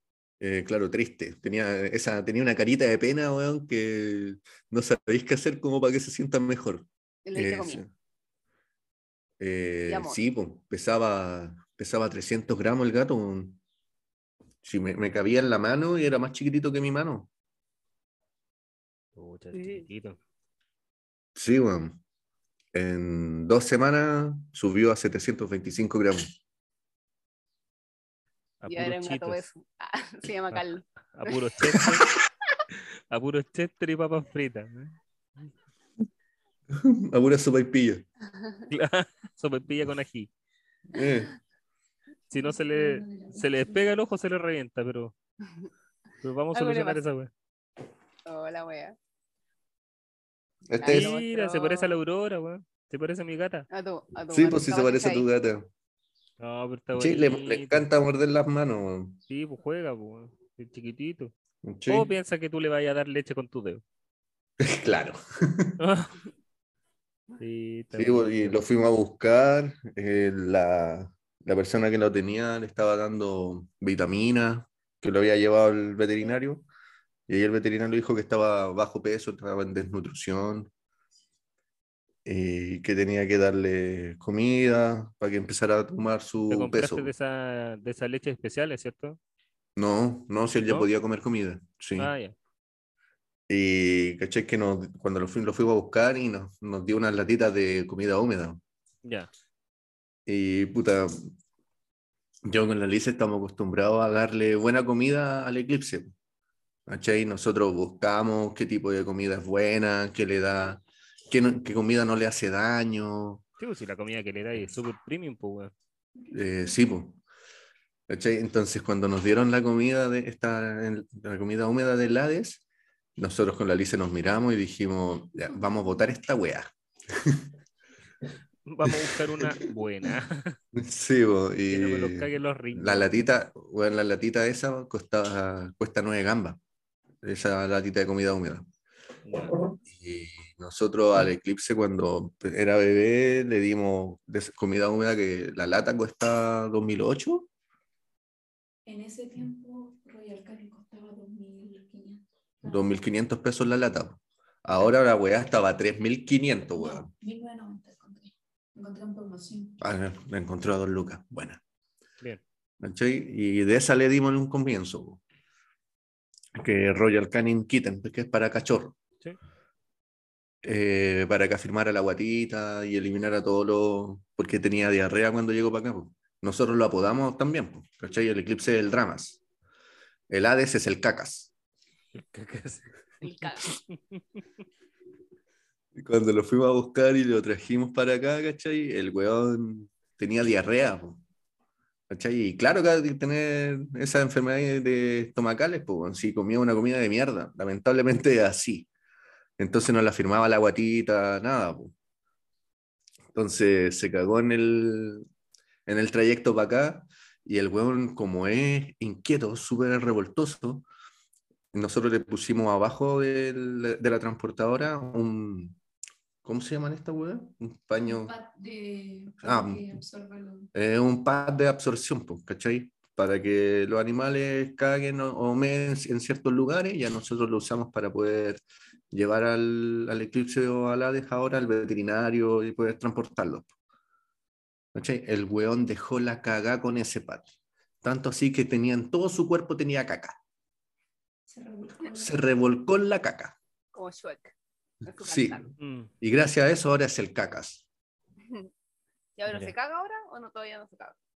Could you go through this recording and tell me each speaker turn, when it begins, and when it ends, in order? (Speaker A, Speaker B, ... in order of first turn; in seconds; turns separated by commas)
Speaker A: 0.4-7.9, Speaker B: 7.3-7.8, Speaker A: 9.4-13.6, Speaker B: 9.9-10.2, Speaker A: 14.6-17.3, Speaker C: 19.2-20.2, Speaker B: 19.5-19.9, Speaker A: 21.4-22.0, Speaker A: 22.7-26.3, Speaker C: 28.6-29.4, Speaker B: 28.7-30.9, Speaker C: 30.5-32.1, Speaker A: 31.7-32.0, Speaker C: 33.1-35.0, Speaker A: 36.7-38.0, Speaker B: 38.4-38.7, Speaker C: 38.7-40.3, Speaker A: 40.9-41.3, Speaker C: 42.3-45.1, Speaker D: 42.3-44.0, Speaker C: 46.2-47.3, Speaker B: 46.5-47.0, Speaker B: 48.3-49.0, Speaker A: 50.7-51.1, Speaker B: 50.8-52.0, Speaker C: 50.9-53.7, Speaker B: 53.7-55.3, Speaker A: 54.3-55.7, Speaker C: 56.4-57.9, Speaker A: 57.0-59.2, Speaker C: 59.3-61.3, Speaker A: 61.6-62.1, Speaker C: 61.9-63.8, Speaker A: 64.6-65.8, Speaker C: 65.8-66.1, Speaker C: 67.4-68.6, Speaker A: 67.9-76.7, Speaker A: 77.3-80.7, Speaker A: 82.2-87.1, Speaker C: 86.5-89.2, Speaker A: 89.8-92.1, Speaker C: 92.0-92.3, Speaker A: 93.5-98.6, Speaker A: 100.3-101.3, Speaker A: 102.5-106.1, Speaker A: 106.9-113.4, Speaker C: 113.6-115.7, Speaker D: 116.2-116.8, Speaker A: 116.3-117.2, Speaker A: 118.1-122.6, Speaker A: 123.2-127.5, Speaker C: 128.7-130.6, Speaker A: 128.8-130.1, Speaker A: 130.7-136.6, Speaker C: 131.7-133.1, Speaker A: 137.2-138.7, Speaker C: 139.3-139.6, Speaker A: 139.5-147.5, Speaker D: 148.9-152.9, Speaker A: 152.7-157.1, Speaker D: 156.8-159.8, Speaker A: 159.8-161.6, Speaker A: 162.8-165.2, Speaker A: 166.6-169.0, Speaker A: 170.6-179.4, Speaker A: 180.3-181.5, Speaker C: 182.1-182.9, Speaker B: 183.2-183.7, Speaker A: 186.0-191.2, Speaker A: 192.1-198.9, Speaker A: 199.6-201.9, Speaker A: 203.3-205.2, Speaker A: 205.9-210.9, Speaker A: 211.7-215.8, Speaker A: 216.4-218.3, Speaker D: 218.0-220.7, Speaker A: 219.4-219.9, Speaker A: 220.7-233.7, Speaker A: 234.9-240.4, Speaker D: 241.5-242.3, Speaker A: 242.1-243.6, Speaker B: 243.9-245.7, Speaker A: 245.2-245.7, Speaker C: 245.8-246.1, Speaker A: 246.2-247.9, Speaker B: 249.4-251.2